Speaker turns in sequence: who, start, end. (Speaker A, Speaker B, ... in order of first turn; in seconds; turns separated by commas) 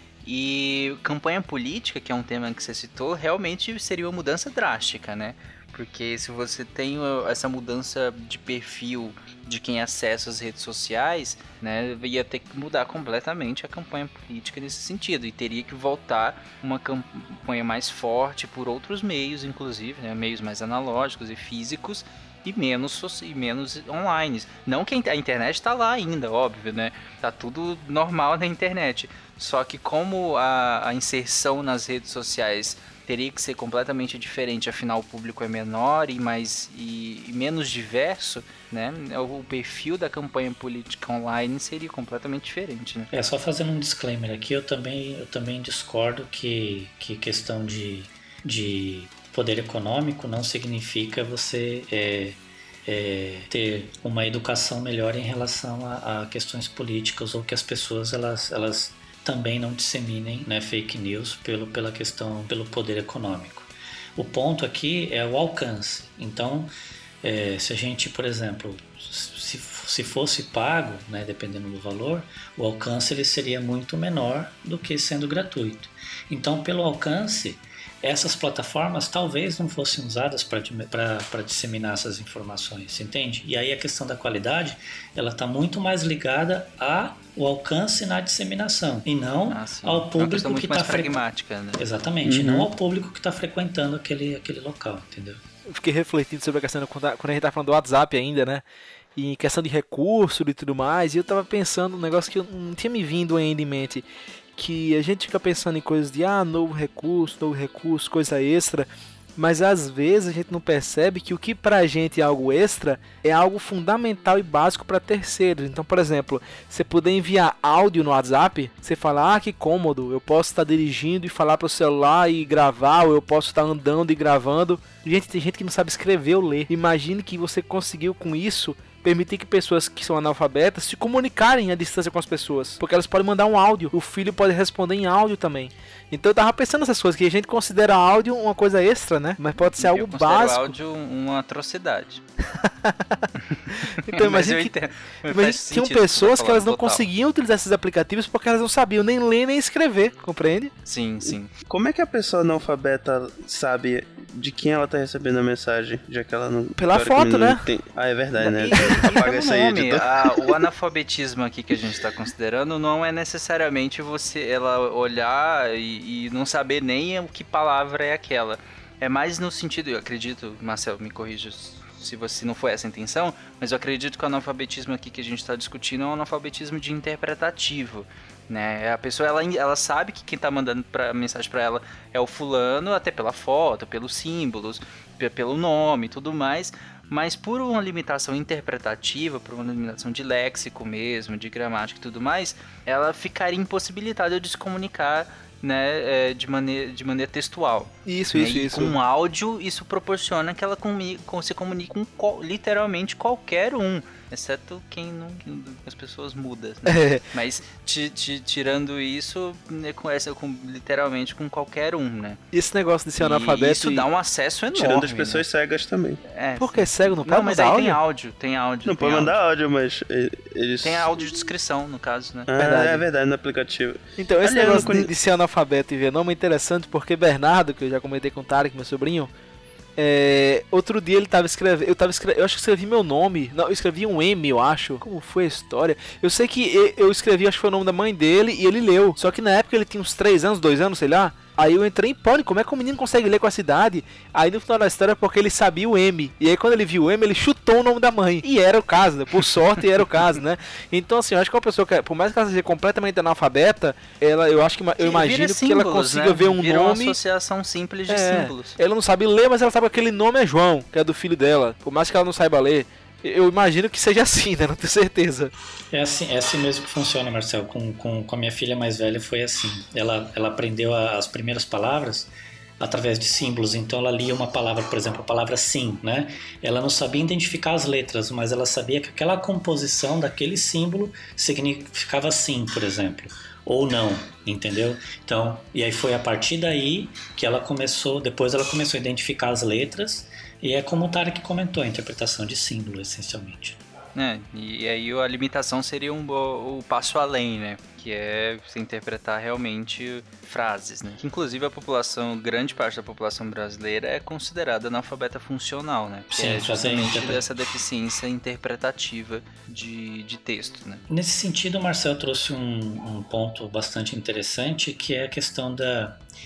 Speaker A: 0.2-43.1, Speaker B: 43.1-91.2, Speaker A: 89.5-91.8, Speaker B: 91.8-95.4, Speaker C: 92.2-92.7, Speaker D: 95.7-98.6, Speaker D: 99.2-140.7, Speaker A: 139.8-142.2, Speaker D: 142.6-144.7, Speaker A: 143.5-147.1, Speaker D: 145.3-150.7, Speaker A: 150.8-151.5, Speaker C: 151.7-160.6, Speaker D: 156.8-157.6, Speaker A: 158.4-212.4, Speaker D: 198.1-198.9, Speaker D: 206.9-207.2, Speaker D: 212.5-214.1, Speaker A: 213.2-215.4, Speaker C: 214.7-216.2, Speaker A: 216.3-219.4, Speaker D: 216.6-218.0, Speaker C: 218.8-221.3, Speaker A: 220.8-222.5, Speaker C: 222.5-225.1, Speaker D: 222.6-223.1, Speaker D: 224.2-229.3, Speaker D: 230.0-257.2, Speaker A: 255.0-258.8, Speaker D: 258.1-265.5, Speaker B: 265.9-293.8, Speaker A: 294.2-311.0, Speaker B: 306.3-307.4, Speaker B: 311.1-316.2